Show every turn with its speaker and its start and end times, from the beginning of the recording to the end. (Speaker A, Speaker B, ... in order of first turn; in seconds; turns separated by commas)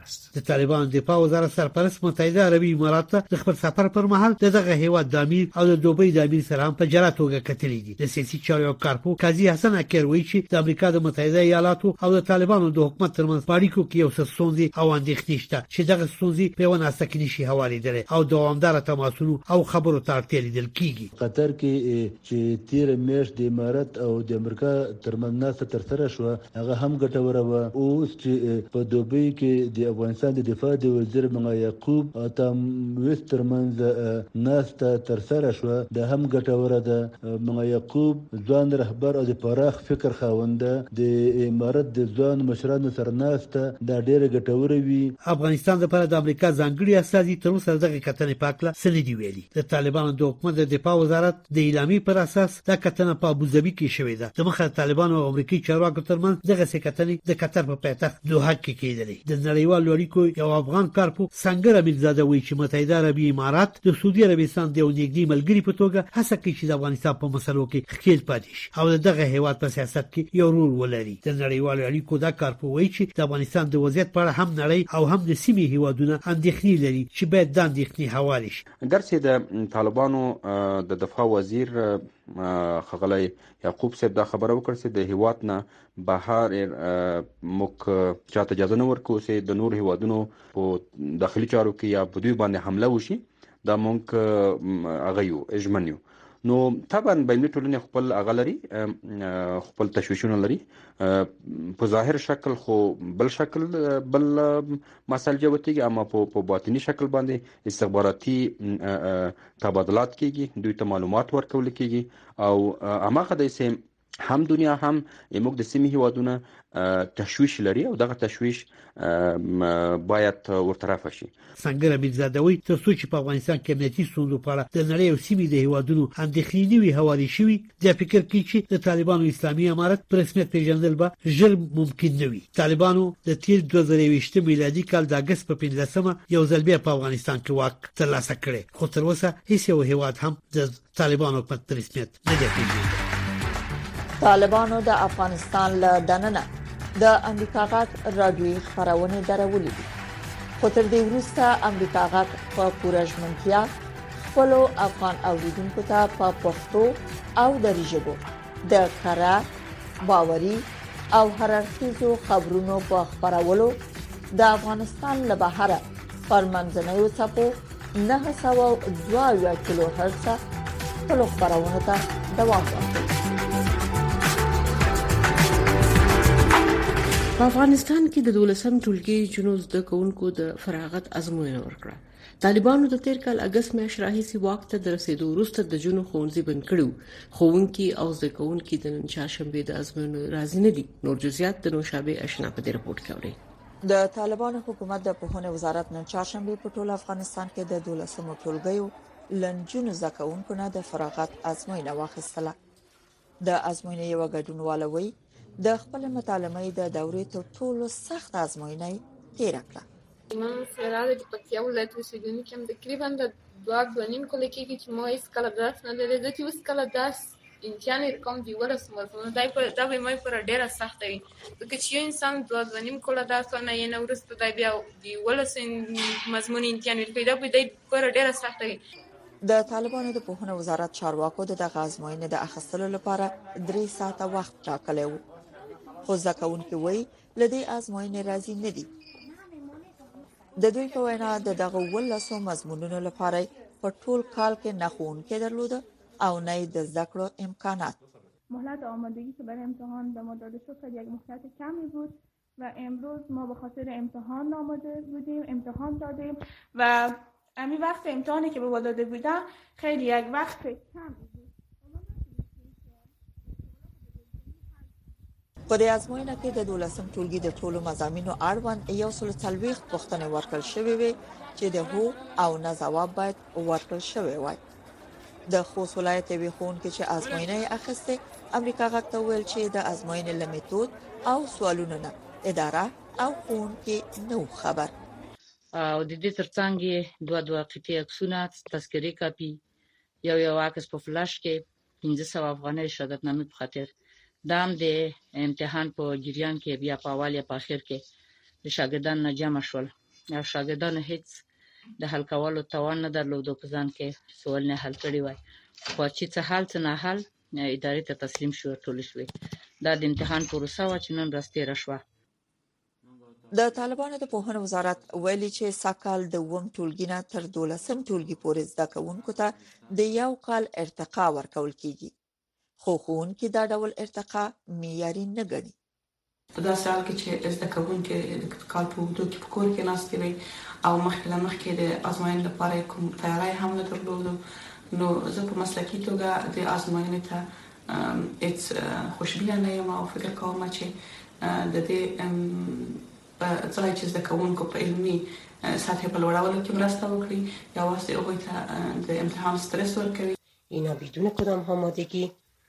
Speaker A: 0.3-21.1, Speaker B: 21.2-45.1, Speaker A: 45.2-78.6, Speaker C: 78.9-121.3, Speaker A: 121.6-143.0, Speaker D: 144.2-146.5, Speaker D: 147.0-149.9, Speaker D: 150.6-153.7, Speaker D: 154.3-159.4, Speaker D: 160.1-163.8, Speaker D: 164.4-170.4, Speaker D: 171.1-173.1, Speaker E: 177.4-193.4, Speaker D: 193.9-202.6, Speaker D: 203.4-209.8, Speaker F: 210.3-228.8, Speaker D: 229.4-235.2, Speaker D: 236.1-238.9, Speaker D: 240.6-248.0, Speaker G: 248.5-263.0, Speaker D: 265.7-274.6, Speaker D: 275.5-284.9, Speaker H: 285.8-289.6, Speaker H: 290.2-293.9, Speaker H: 294.5-298.0, Speaker H: 298.6-301.4, Speaker H: 302.0-305.4, Speaker H: 305.9-309.3, Speaker H: 309.8-312.0, Speaker D: 313.5-322.1, Speaker D: 322.8-325.7, Speaker I: 326.6-334.4, Speaker I: 334.9-352.3